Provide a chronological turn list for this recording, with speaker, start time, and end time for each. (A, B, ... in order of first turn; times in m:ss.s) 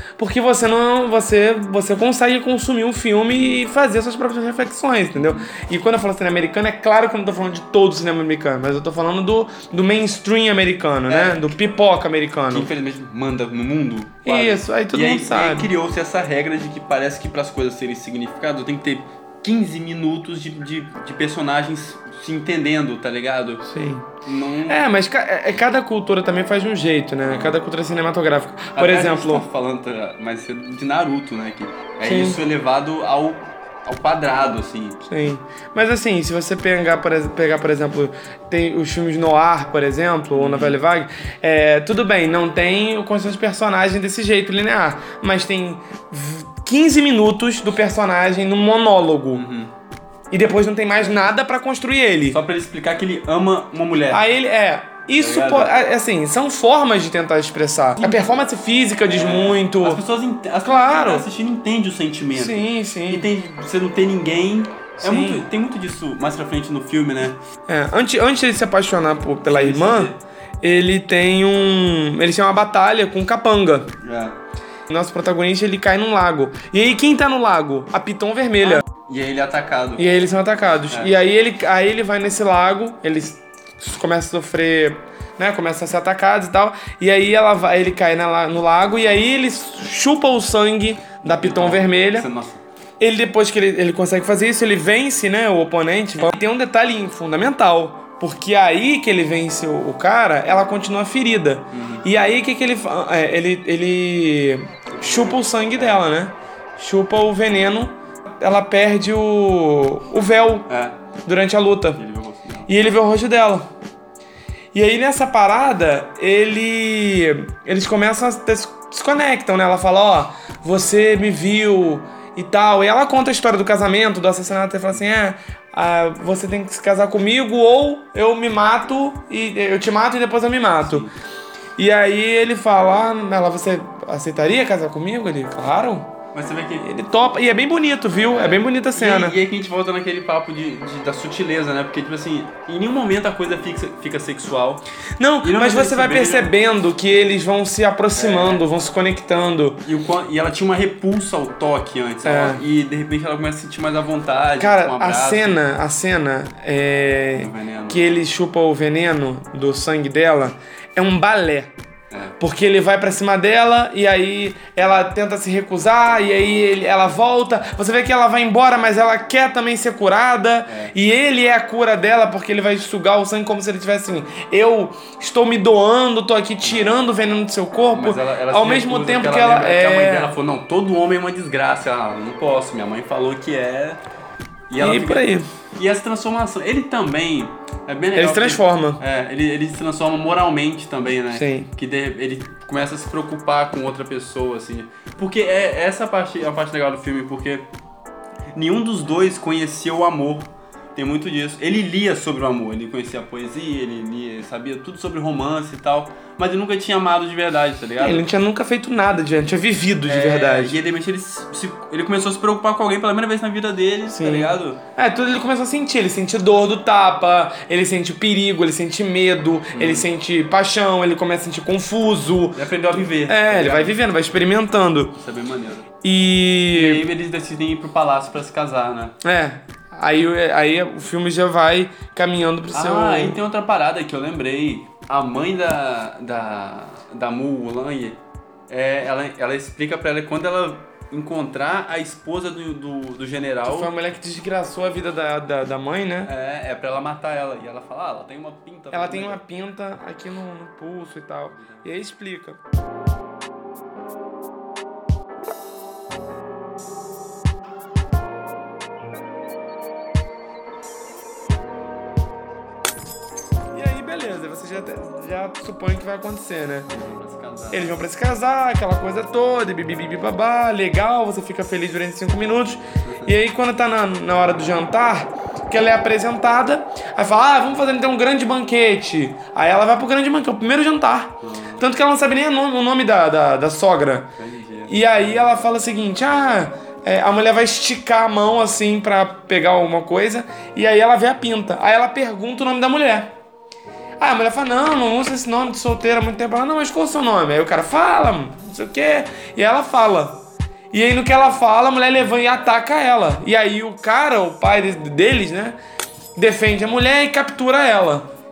0:00.2-0:12.7 A
0:05.2-0:05.5 B
0:11.1-0:11.5 B
0:12.5-0:23.7 B
0:14.2-0:15.7 A
0:23.6-0:24.1 A
0:24.2-0:24.8 B
0:24.7-0:29.4 A
0:27.3-0:27.6 B
0:28.7-0:35.0 B
0:32.0-0:32.4 A
0:35.0-0:49.4 A
0:40.3-0:40.8 B
0:49.3-0:49.7 B
0:50.3-0:52.4 A
0:51.0-0:51.3 B
0:52.3-0:54.2 B
0:54.1-1:00.0 A
0:55.1-0:55.7 B
0:59.1-1:07.4 B
1:00.6-1:01.2 A
1:02.3-1:03.3 A
1:05.0-1:05.4 A
1:07.7-1:13.9 A
1:09.4-1:10.2 B
1:14.0-1:14.4 B
1:14.9-1:18.8 A
1:18.6-1:20.1 B
1:20.0-1:32.3 A
1:31.3-1:32.6 B
1:33.0-1:50.7 A
1:41.7-1:42.0 B
1:44.9-1:46.0 B
1:50.7-1:51.0 B
1:51.2-1:52.0 A
1:52.0-1:52.7 B
1:52.7-1:53.7 A
1:54.7-2:11.1 A
2:10.8-2:11.1 B
2:11.8-2:16.1 A
2:16.3-2:16.9 B
2:16.8-2:19.4 A
2:18.2-2:24.8 B
2:25.2-2:29.8 A
2:25.4-2:26.5 B
2:28.1-2:28.6 B
2:29.8-2:35.6 B
2:32.2-2:32.6 A
2:34.6-2:41.7 A
2:37.4-2:38.1 B
2:42.1-2:42.4 B
2:42.4-3:00.3 A
2:50.7-2:50.9 B
2:56.6-2:56.9 B
2:57.9-3:04.0 B
3:04.7-3:17.7 B
3:04.8-3:05.5 A
3:08.2-3:09.0 A
3:11.3-3:11.7 A
3:18.5-3:28.2 B
3:28.0-3:30.7 A
3:30.0-3:34.8 B
3:34.1-3:45.1 A
3:39.7-3:40.1 B
3:42.5-3:44.0 B
3:45.2-3:45.9 B
3:46.0-3:47.0 A
3:46.7-3:49.2 B
3:49.2-3:53.4 A
3:52.7-4:03.9 B
4:03.6-4:06.3 A
4:06.2-4:09.4 B
4:08.9-4:12.6 A
4:11.6-4:11.9 B
4:23.7-4:26.9 A
4:26.9-4:28.0 B
4:27.7-4:44.3 A
4:33.0-4:33.4 B
4:41.4-4:41.8 B
4:44.4-4:45.2 B
4:44.9-4:53.3 A
4:54.2-5:00.4 A
5:00.9-5:05.8 A
5:06.4-5:08.3 A